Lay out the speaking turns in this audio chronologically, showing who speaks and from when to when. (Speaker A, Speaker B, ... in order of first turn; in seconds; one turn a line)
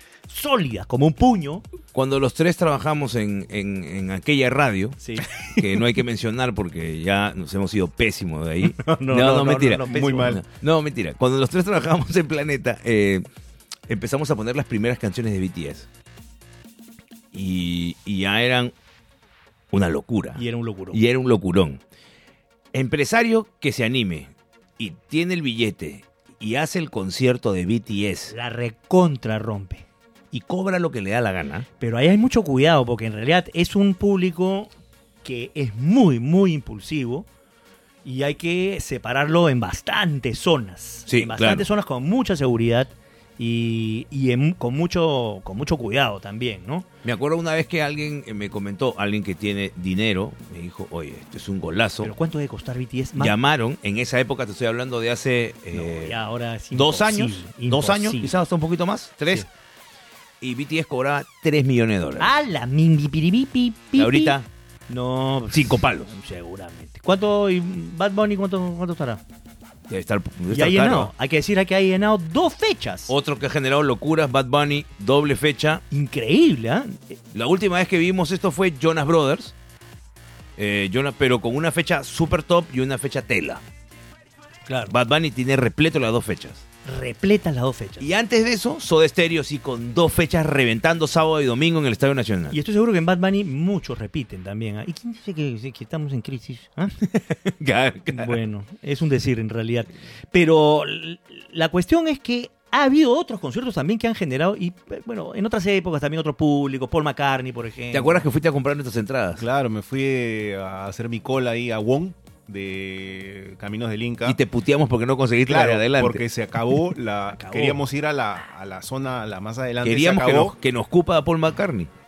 Speaker A: 0.3-1.7
Speaker B: 1.9-13.2
Speaker A: 5.0-5.7
Speaker A: 8.6-10.4
Speaker C: 9.9-10.4
Speaker B: 13.9-15.9
Speaker B: 17.3-18.7
Speaker B: 19.7-21.8
Speaker A: 20.4-21.0
Speaker B: 22.7-28.3
Speaker A: 28.3-29.9
Speaker B: 30.3-31.7
Speaker A: 31.8-34.7
Speaker A: 35.2-37.3
Speaker A: 38.0-46.9
Speaker B: 41.1-41.7
Speaker B: 47.0-52.1
Speaker A: 52.0-53.4
Speaker B: 53.2-56.2
Speaker A: 55.7-58.3
Speaker B: 56.7-59.5
Speaker B: 60.4-62.3
Speaker A: 62.2-64.4
Speaker B: 64.0-64.5
Speaker A: 64.9-69.2
Speaker B: 65.5-66.1
Speaker B: 69.9-71.1
Speaker A: 70.5-73.1
Speaker B: 73.1-75.8
Speaker A: 75.9-77.2
Speaker B: 77.3-79.5
Speaker B: 80.6-83.6
Speaker A: 84.7-84.9
Speaker B: 84.9-86.7
Speaker A: 86.8-88.1
Speaker B: 88.0-92.6
Speaker A: 92.5-97.0
Speaker B: 97.0-98.4
Speaker A: 98.1-108.3
Speaker B: 107.9-109.4
Speaker C: 109.4-114.4
Speaker B: 114.2-116.2
Speaker C: 115.5-120.5
Speaker A: 117.3-117.8
Speaker B: 119.8-121.9